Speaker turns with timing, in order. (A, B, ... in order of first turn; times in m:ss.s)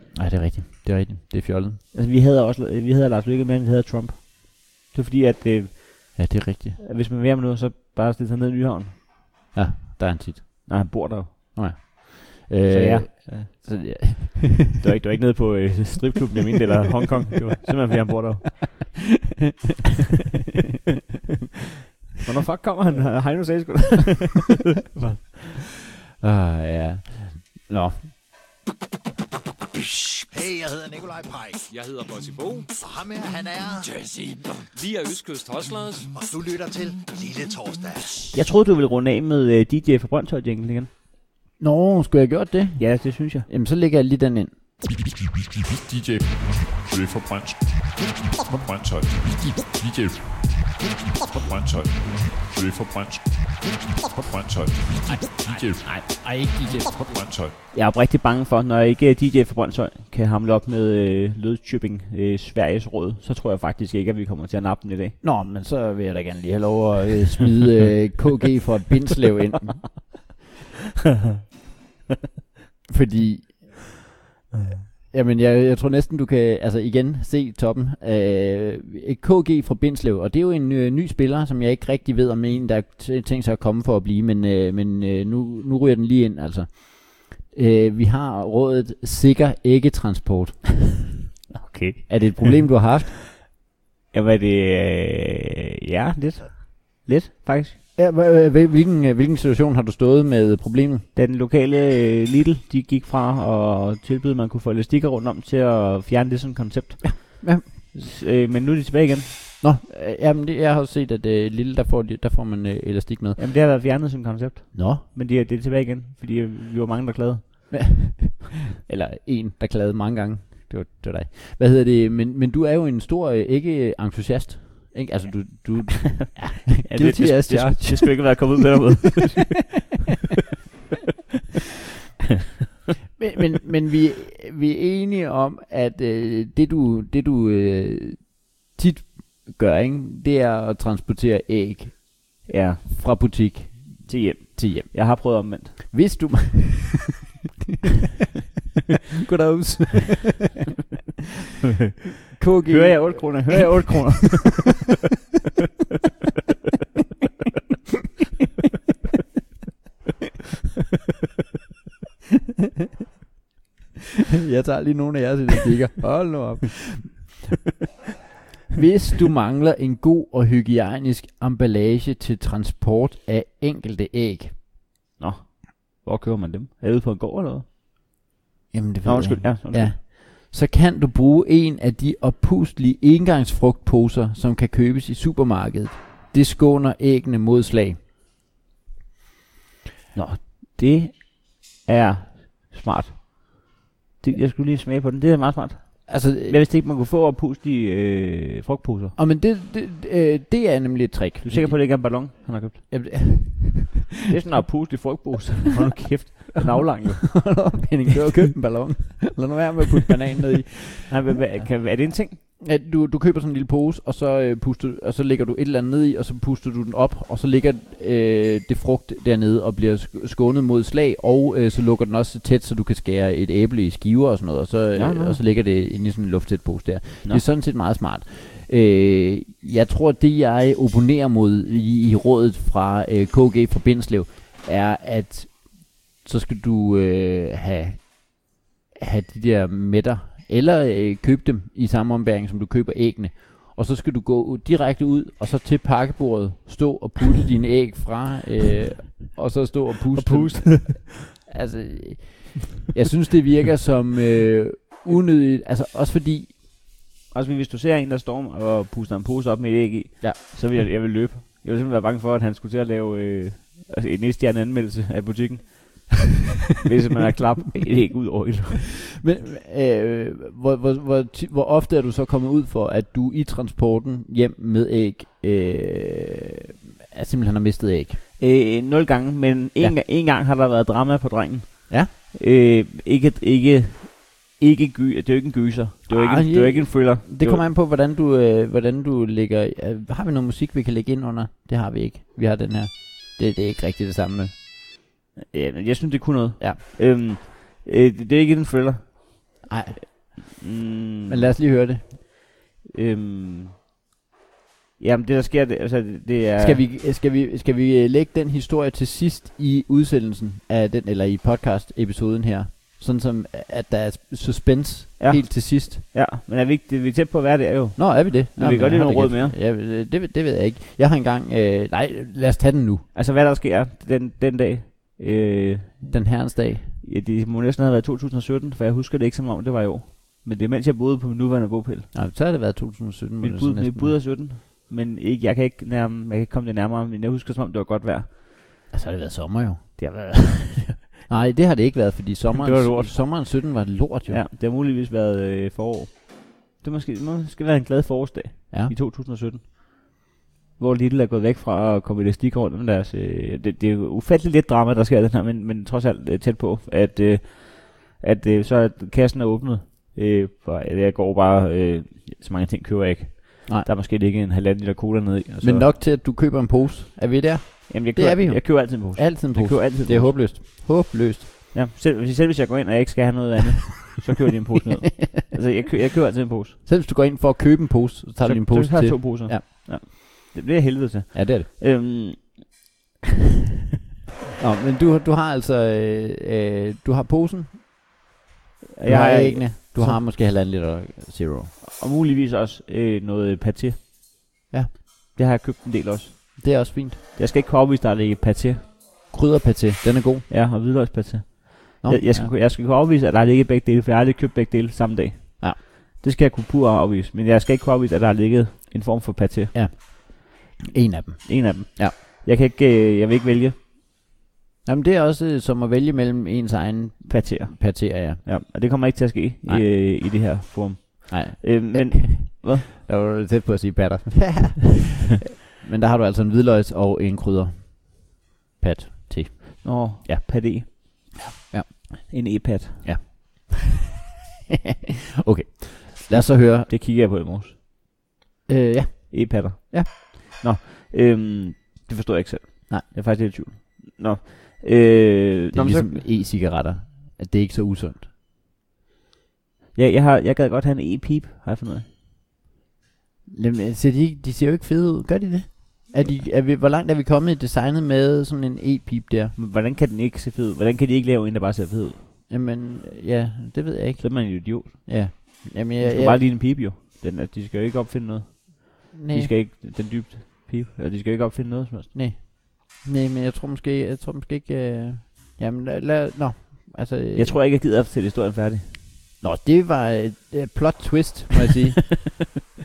0:00.1-0:01.8 A
0:01.9-0:09.0 B
0:06.2-0:06.8 A
0:09.5-0:14.7 A
0:10.7-0:11.6 B
0:12.7-0:14.1 B
0:14.8-0:18.9 B
0:22.2-0:25.4 B
0:26.2-0:28.1 A
0:29.8-0:31.7 C
0:31.7-0:32.7 D
0:32.7-0:34.7 C
0:34.8-0:36.1 D
0:36.1-0:38.3 C
0:38.3-0:40.9 B
0:41.6-0:44.5 A
0:42.8-0:43.5 B
0:45.8-0:56.4 E
0:55.8-0:57.1 A
0:57.1-0:57.6 E
0:57.7-1:05.2 B
1:05.2-1:10.0 A
1:12.9-1:13.8 A
1:14.6-1:14.8 B
1:15.1-1:30.8 A
1:31.5-1:32.5 B
1:32.1-1:33.2 A
1:34.1-1:37.8 B
1:38.0-1:41.1 A
1:41.2-1:49.3 B
1:47.0-1:47.7 A
1:49.6-1:53.4 A
1:53.4-1:57.8 B
1:54.7-1:55.0 A
1:57.7-2:08.6 A
2:06.8-2:09.8 B
2:13.2-2:27.1 A
2:22.4-2:23.0 B
2:24.1-2:25.8 B
2:29.2-2:30.5 A
2:32.3-2:34.2 A
2:32.7-2:34.9 B
2:44.4-2:47.4 A
2:48.7-2:54.6 A
2:55.2-2:57.6 B
2:58.7-3:08.0 A
2:59.0-2:59.9 B
3:10.1-3:19.2 B
3:16.1-3:16.6 A
3:19.2-3:24.0 A
3:21.4-3:22.9 B
3:24.3-3:27.6 B
3:27.3-3:31.1 A
3:31.1-3:32.4 B
3:32.6-4:16.6 A
3:45.0-3:45.4 B
4:10.1-4:11.1 B
4:17.3-4:26.2 B
4:26.8-4:28.8 B
4:29.2-4:36.5 A
4:37.1-4:38.2 A
4:38.4-4:47.6 B
4:46.1-4:54.5 A
4:55.5-5:01.5 B
4:59.7-5:00.6 A
5:01.3-5:02.1 A
5:02.8-5:03.8 B
5:05.0-5:06.8 B
5:06.6-5:16.0 A
5:15.2-5:19.6 B
5:18.0-5:23.0 A
5:23.1-5:26.5 B
5:26.1-5:27.0 A
5:27.0-5:32.1 B
5:32.1-5:34.2 A
5:33.4-5:38.4 B
5:38.9-5:40.0 A
5:40.0-5:41.1 B
5:41.3-5:44.4 A
5:42.5-5:43.5 B
5:44.3-5:50.2 B
5:50.8-6:05.9 B
6:05.6-6:11.5 A
6:07.9-6:10.5 B
6:11.7-6:16.8 B
6:16.8-6:19.6 A
6:18.4-6:22.8 B
6:21.3-6:21.7 A
6:24.6-6:28.1 A
6:29.0-6:30.2 B
6:29.0-6:31.7 A
6:31.8-6:34.0 B
6:35.4-6:38.9 B
6:36.6-6:37.2 A
6:39.3-6:40.5 A
6:40.5-6:49.7 B
6:42.0-6:42.5 A
6:49.7-6:52.1 A
6:51.5-6:53.8 B
6:54.8-6:58.7 A
6:57.3-7:02.9 B
6:59.6-7:00.5 A
7:01.3-7:13.9 A
7:09.8-7:11.0 B
7:12.3-7:13.1 B
7:15.4-7:16.9 A
7:16.3-7:17.8 B
7:18.7-7:20.1 A
7:19.3-7:26.2 B
7:25.7-7:28.3 A
7:30.0-7:32.0 B
7:33.5-7:39.6 A
7:39.6-7:42.2 B
7:42.5-7:46.4 A
7:44.2-7:52.1 B
7:49.1-7:49.6 A
7:52.1-7:57.6 A
7:57.4-7:58.9 B
7:59.4-8:02.6 A